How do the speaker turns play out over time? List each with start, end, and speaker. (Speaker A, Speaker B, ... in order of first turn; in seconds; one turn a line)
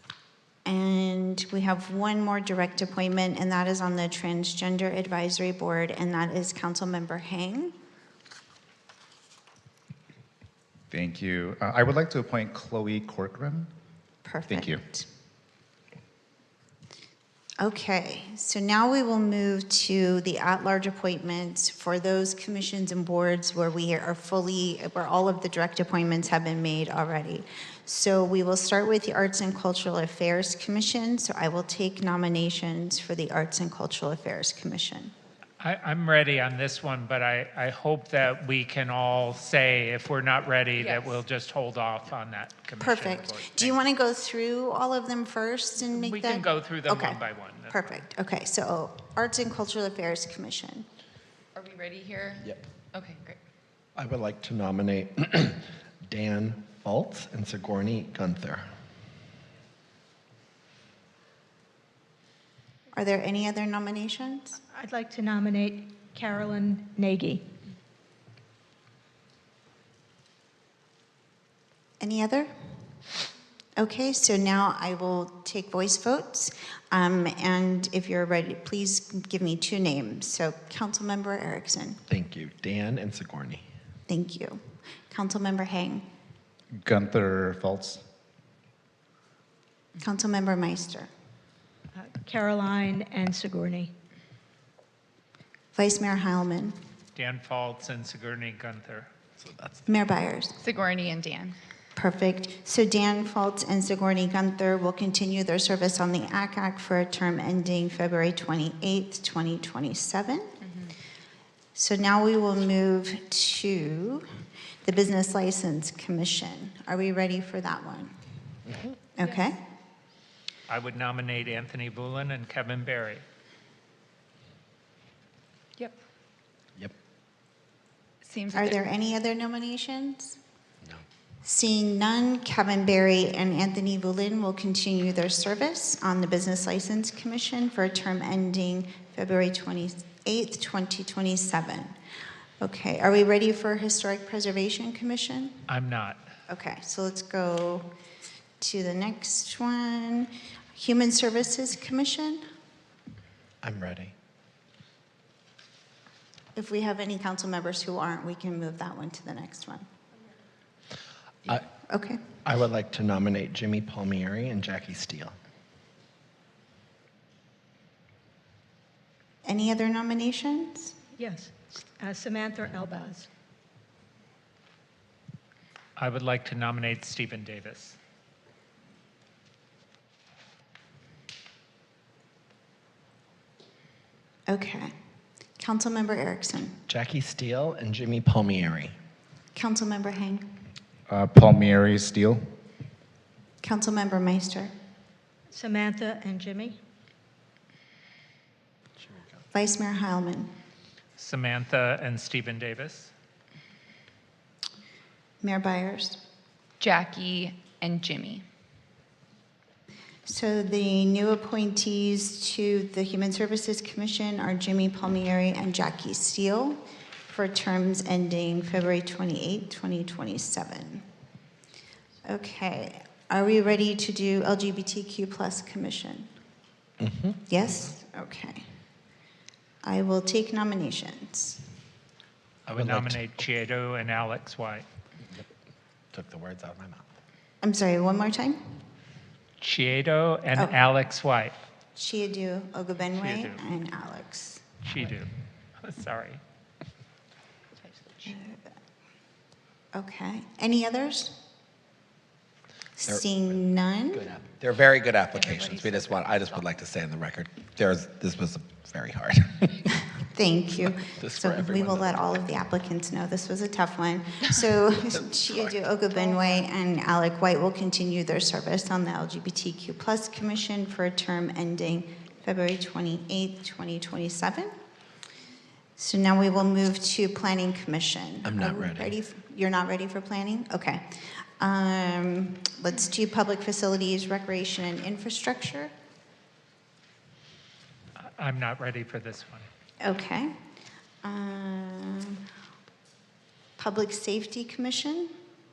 Speaker A: 0.7-7.7
Speaker B: 10.9-13.7
Speaker A: 14.2-15.1
Speaker B: 14.5-14.8
Speaker A: 17.6-35.1
Speaker C: 35.6-43.8
Speaker D: 40.8-41.1
Speaker A: 42.8-50.9
Speaker C: 45.9-47.8
Speaker D: 51.5-53.4
Speaker E: 54.0-58.7
Speaker A: 62.9-64.6
Speaker F: 64.7-67.4
Speaker A: 72.0-72.9
Speaker A: 73.8-82.0
Speaker E: 82.1-83.6
Speaker A: 84.1-86.1
Speaker B: 86.7-88.0
Speaker A: 90.0-91.1
Speaker F: 92.0-93.9
Speaker A: 95.8-96.8
Speaker C: 97.2-99.1
Speaker E: 99.4-99.9
Speaker A: 99.9-100.5
Speaker D: 100.6-101.6
Speaker A: 102.0-110.5
Speaker A: 111.8-114.2
Speaker A: 114.8-118.1
Speaker A: 119.2-119.6
Speaker C: 120.7-123.2
Speaker D: 128.2-128.8
Speaker A: 128.5-130.4
Speaker A: 131.4-141.9
Speaker A: 142.6-145.7
Speaker C: 145.7-146.2
Speaker A: 146.5-147.9
Speaker A: 148.6-152.4
Speaker E: 153.6-154.1
Speaker A: 156.5-159.8
Speaker A: 161.9-162.2
Speaker E: 162.4-165.3
Speaker A: 169.4-170.9
Speaker F: 171.2-173.3
Speaker C: 176.0-178.0
Speaker A: 184.5-184.9
Speaker A: 185.6-186.8
Speaker E: 186.9-188.9
Speaker A: 189.5-190.6
Speaker B: 191.1-192.5
Speaker A: 193.6-194.7
Speaker F: 195.5-196.8
Speaker A: 199.5-200.5
Speaker C: 201.2-203.1
Speaker A: 205.4-206.2
Speaker D: 206.8-208.4
Speaker A: 210.2-221.0
Speaker A: 222.2-226.3
Speaker E: 227.0-227.4
Speaker A: 227.5-228.7
Speaker A: 229.8-231.6
Speaker C: 232.7-234.8
Speaker E: 232.7-233.2
Speaker E: 236.1-237.1
Speaker A: 237.6-238.8
Speaker C: 239.6-241.5
Speaker A: 241.9-244.7
Speaker C: 243.1-243.6
Speaker C: 244.8-246.4
Speaker D: 247.8-248.4
Speaker A: 248.3-248.6
Speaker A: 249.9-251.4
Speaker A: 253.0-254.2
Speaker E: 253.1-253.6
Speaker E: 254.1-259.9
Speaker D: 255.3-256.6
Speaker A: 260.3-274.7
Speaker E: 260.9-262.4
Speaker E: 265.0-265.8
Speaker A: 276.0-285.9
Speaker E: 278.4-279.1
Speaker C: 288.2-289.7
Speaker A: 290.0-290.6
Speaker A: 291.2-292.4
Speaker A: 293.8-295.3